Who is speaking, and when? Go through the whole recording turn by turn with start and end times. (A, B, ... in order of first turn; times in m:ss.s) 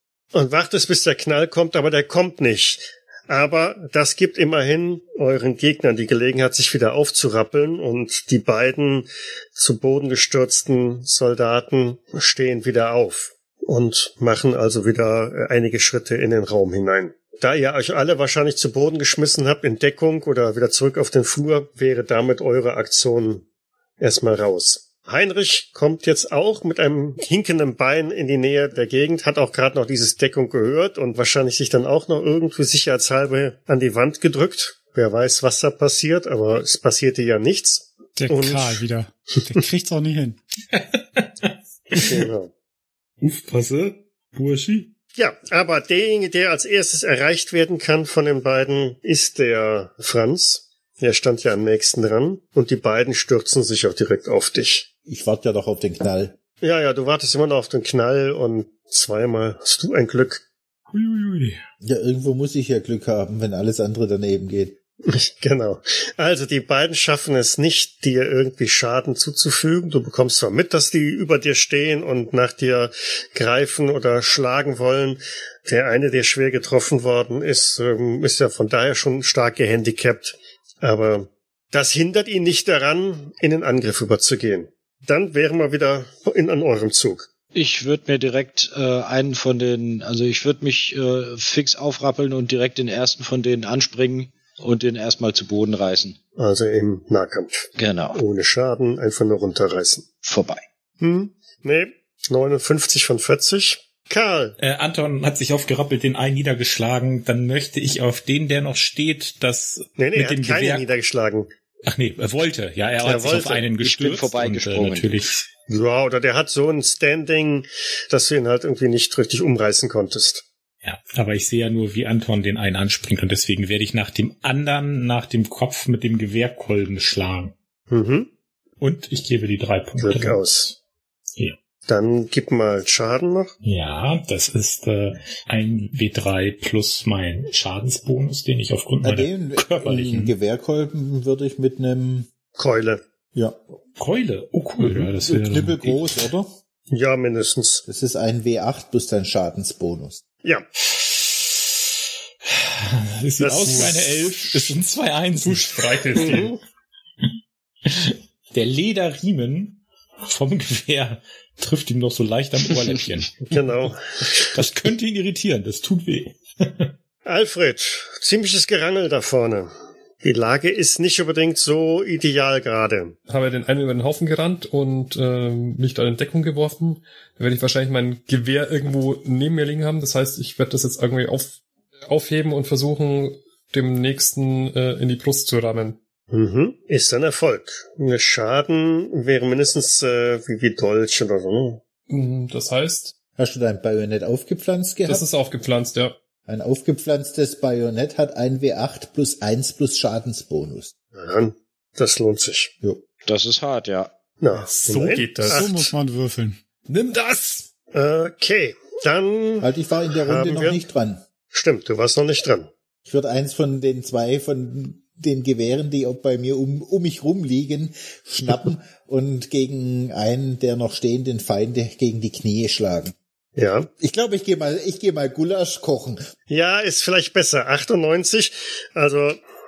0:00.3-0:23.4 A
0:24.0-0:38.8 A
0:38.2-0:40.4 B
0:40.7-0:42.2 C
0:41.9-0:42.5 A
0:43.2-0:44.9 C
0:45.2-0:54.8 A
0:55.0-0:56.4 D
0:56.6-1:00.4 A
1:00.9-1:01.6 C
1:01.8-1:04.8 D
1:05.0-1:27.2 A
1:27.5-1:36.2 E
1:36.4-1:40.0 A
1:37.8-1:38.2 E
1:40.2-1:40.6 E
1:41.0-1:44.5 A
1:44.6-1:50.9 C
1:50.0-1:51.5 A
1:51.8-1:55.4 C
1:53.0-1:53.6 A
1:53.8-1:55.2 E
1:55.7-2:00.4 A
2:00.8-2:07.5 C
2:07.9-2:08.3 A
2:08.8-2:10.4 C
2:10.0-2:10.7 A
2:11.9-2:13.5 A
2:13.6-2:20.3 C
2:19.0-2:22.3 D
2:22.6-2:23.0 A
2:24.0-2:26.0 C
2:24.8-2:26.5 D
2:26.9-2:27.8 A
2:27.8-2:30.2 D
2:32.5-2:36.4 C
2:33.4-2:34.7 A
2:35.4-2:36.5 F
2:36.2-2:36.6 A
2:37.8-2:43.6 C
2:43.5-2:44.4 A
2:44.3-2:46.9 C
2:47.2-2:49.7 A
2:50.2-2:53.2 A
2:53.3-3:06.0 F
3:06.3-3:11.8 A
3:12.1-3:13.1 F
3:13.4-3:15.2 D
3:15.1-3:16.2 F
3:16.4-3:20.9 D
3:21.1-3:22.7 A
3:23.2-3:24.1 E
3:24.4-3:25.9 A
3:24.5-3:25.7 F
3:25.5-3:26.6 B
3:26.9-3:27.7 F
3:27.9-3:29.7 A
3:29.6-3:31.2 D
3:30.2-3:30.8 A
3:31.5-3:32.7 A
3:33.0-3:43.1 D
3:43.6-3:43.9 A
3:44.0-3:46.3 D
3:46.5-3:49.4 A